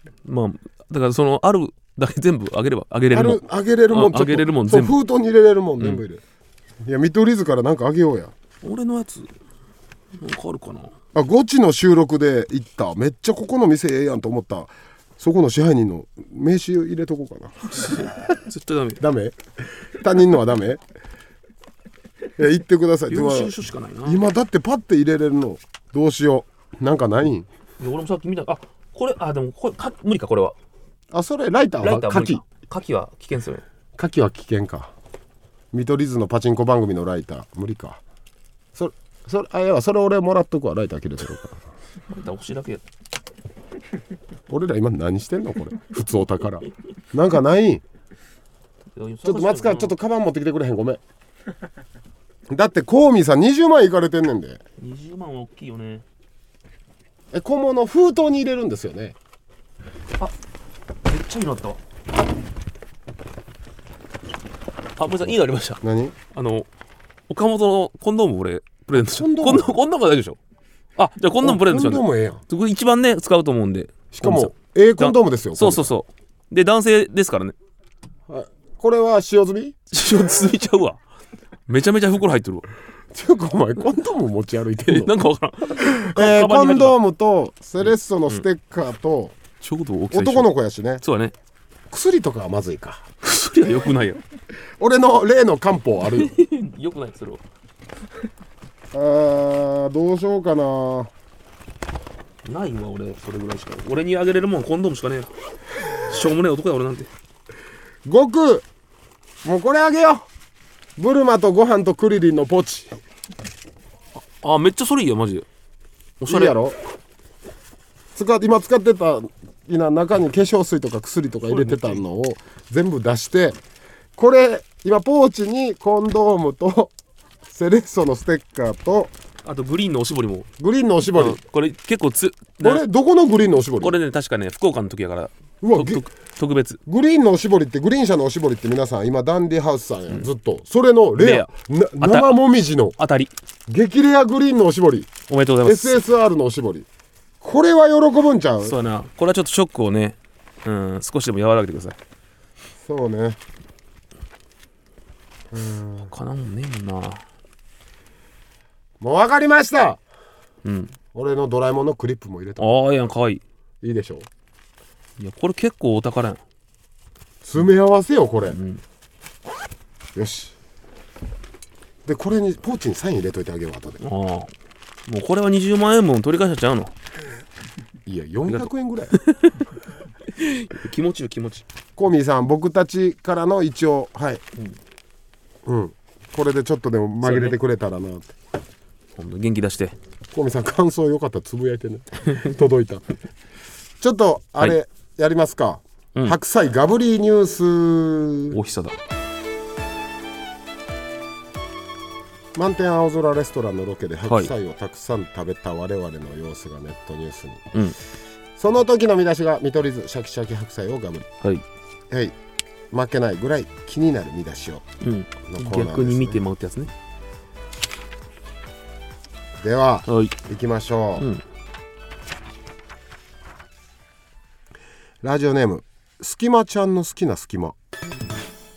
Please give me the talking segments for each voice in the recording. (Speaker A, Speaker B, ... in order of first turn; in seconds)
Speaker A: 0.2-5.0, 8.6-9.3, 10.2-10.9, 17.6-19.0, 23.1-24.2, 27.8-30.6, 31.8-33.6, 42.1-42.8, 48.9-50.0, 54.8-56.0, 61.0-61.8, 65.0-66.7, 67.3-70.4, 71.0-77.5, 79.9-81.0, 81.7-82.7, 84.8-87.0, 87.9-88.5, 89.6-91.3, 93.2-94.2, 96.1-97.4, 102.4-107.1, 114.1-115.5, 116.2-116.5, 121.5-122.0, 129.4-130.5, 131.0-132.8, 133.8-136.8, 141.2-142.3, 143.0-143.3, 145.3-146.0, 148.6-152.0, 156.1-157.2, 160.6-160.9, 162.6-163.4, 165.2-166.4, 168.5-168.8, 174.0-174.5, 175.0-176.9, 178.4-181.6, 187.2-187.6, 189.1-189.9, 198.5-199.0, 204.3-204.5, 215.0-216.9, 220.1-220.3, 221.2-221.4
Speaker B: 3.1-6.2, 6.8-8.3, 11.1-18.1, 19.0-20.8, 22.4-27.5, 31.1-32.4, 34.0-34.9, 35.7-38.0, 38.7-41.6, 44.5-47.8, 49.2-51.0, 52.5-54.6, 57.3-59.1, 65.8-66.2, 68.9-69.7, 71.4-72.4, 74.1-75.9, 78.3-79.8, 83.1-85.1, 85.7-89.3, 90.1-91.0, 91.9-93.0, 94.8-96.3, 98.9-101.1, 108.0-108.6, 109.4-110.3, 111.0-113.0, 116.2-116.8, 118.1-123.6, 124.2-126.9, 127.5-129.1, 130.6-131.4, 132.6-134.0, 135.6-136.1, 136.8-143.0, 143.7-145.1, 145.6-146.9, 147.4-148.8, 152.8-153.4, 155.5-156.1, 159.0-160.0, 161.1-162.8, 163.8-164.3, 167.4-168.6, 170.1-170.5, 172.0-174.0, 178.1-179.2, 181.9-184.4, 185.7-188.3, 190.3-193.2, 194.0-198.6, 202.5-207.8, 208.6-211.3, 212.1-212.3, 212.9-214.8, 215.4-216.4, 219.6-221.3, 225.2-227.7